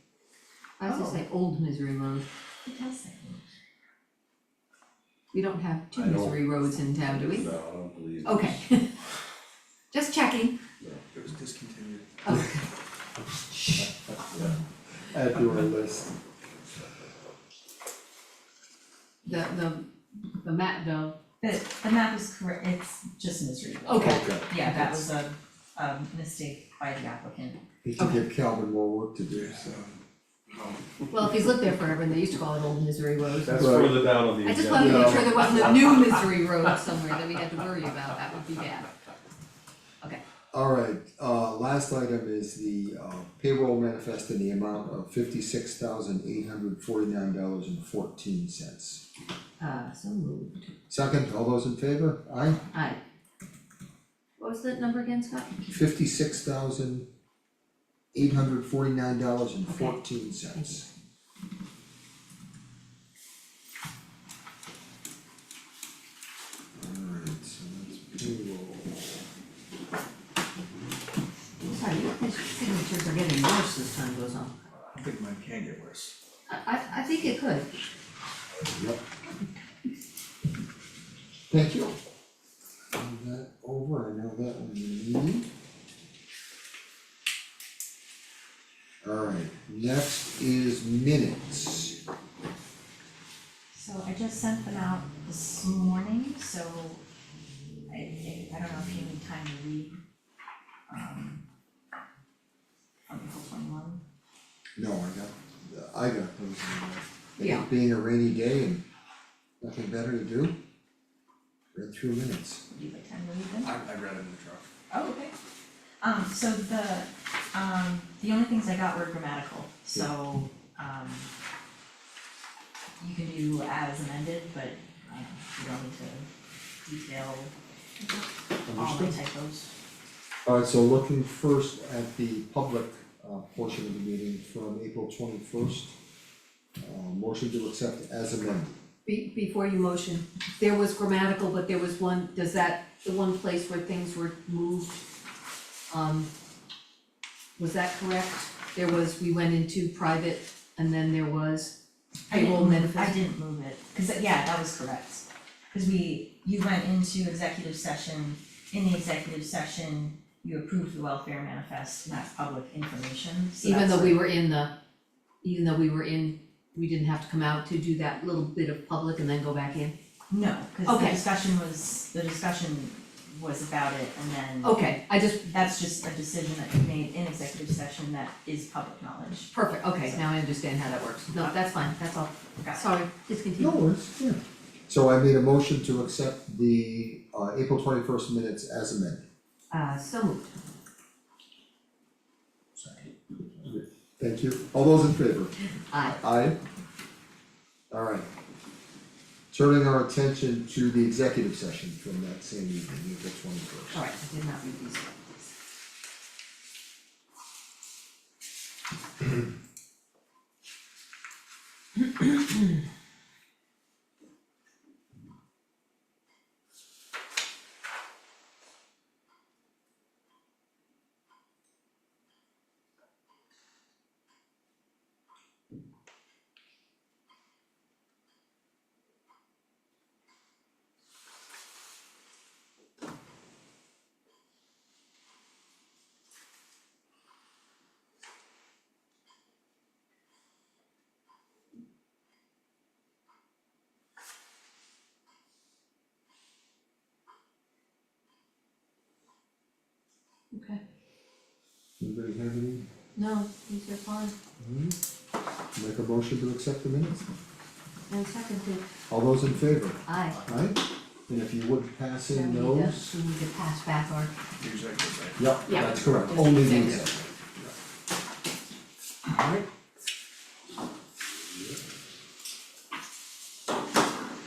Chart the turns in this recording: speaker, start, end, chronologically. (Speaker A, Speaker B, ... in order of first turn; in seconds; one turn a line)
Speaker A: 0.8-2.3
Speaker B: 0.9-1.2
Speaker B: 2.6-3.4
Speaker A: 5.3-7.5
Speaker C: 5.9-8.6
Speaker A: 8.2-8.9
Speaker A: 9.9-10.6
Speaker D: 11.1-12.0
Speaker A: 12.2-12.7
Speaker A: 13.5-13.8
Speaker E: 13.8-14.5
Speaker E: 15.1-16.1
Speaker A: 19.2-19.9
Speaker A: 20.4-21.1
Speaker B: 21.4-27.6
Speaker A: 23.9-25.0
Speaker E: 24.0-24.5
Speaker E: 27.8-29.8
Speaker A: 28.0-28.2
Speaker D: 29.3-29.9
Speaker D: 30.5-30.9
Speaker A: 31.1-33.8
Speaker C: 33.5-36.2
Speaker E: 33.5-34.0
Speaker A: 34.4-38.9
Speaker E: 34.7-35.4
Speaker E: 40.5-49.0
Speaker A: 49.6-50.7
Speaker E: 50.9-52.6
Speaker A: 52.7-53.0
Speaker A: 54.4-55.5
Speaker E: 55.7-57.1
Speaker E: 58.1-60.9
Speaker A: 59.7-60.0
Speaker A: 60.6-60.8
Speaker E: 66.8-69.0
Speaker A: 71.6-74.6
Speaker D: 75.0-76.1
Speaker A: 76.5-77.7
Speaker E: 78.7-79.0
Speaker A: 79.3-79.6
Speaker E: 81.5-82.0
Speaker E: 82.9-85.5
Speaker E: 89.0-92.0
Speaker B: 93.7-97.0
Speaker B: 97.9-100.0
Speaker B: 100.9-101.5
Speaker B: 103.1-104.0
Speaker E: 104.8-108.8
Speaker A: 107.4-107.6
Speaker E: 109.6-110.6
Speaker E: 111.7-112.6
Speaker B: 112.7-113.8
Speaker D: 113.6-114.7
Speaker B: 114.9-115.3
Speaker B: 116.0-121.3
Speaker B: 123.0-126.3
Speaker B: 126.8-128.2
Speaker E: 128.7-129.2
Speaker B: 128.7-129.7
Speaker E: 130.5-135.9
Speaker E: 136.8-138.8
Speaker A: 139.1-145.0
Speaker A: 145.9-146.3
Speaker A: 147.6-151.7
Speaker A: 152.3-153.2
Speaker B: 152.3-164.2
Speaker A: 163.6-164.7
Speaker A: 165.4-169.9
Speaker B: 170.3-180.3
Speaker A: 170.8-171.2
Speaker A: 174.6-175.5
Speaker A: 179.5-183.8
Speaker B: 182.6-182.9
Speaker E: 183.6-189.2
Speaker A: 189.7-190.5
Speaker E: 193.6-196.6
Speaker A: 195.9-196.2
Speaker E: 197.9-198.3
Speaker E: 199.5-204.0
Speaker A: 203.9-205.3
Speaker A: 250.5-250.8
Speaker E: 252.0-252.9
Speaker A: 253.2-254.3
Speaker E: 254.6-255.0
Speaker E: 255.8-257.3
Speaker A: 258.1-258.9
Speaker E: 259.1-263.2
Speaker A: 260.1-260.5
Speaker A: 262.3-264.3
Speaker D: 264.6-266.3
Speaker E: 265.4-267.3
Speaker A: 265.7-267.1
Speaker E: 269.3-269.7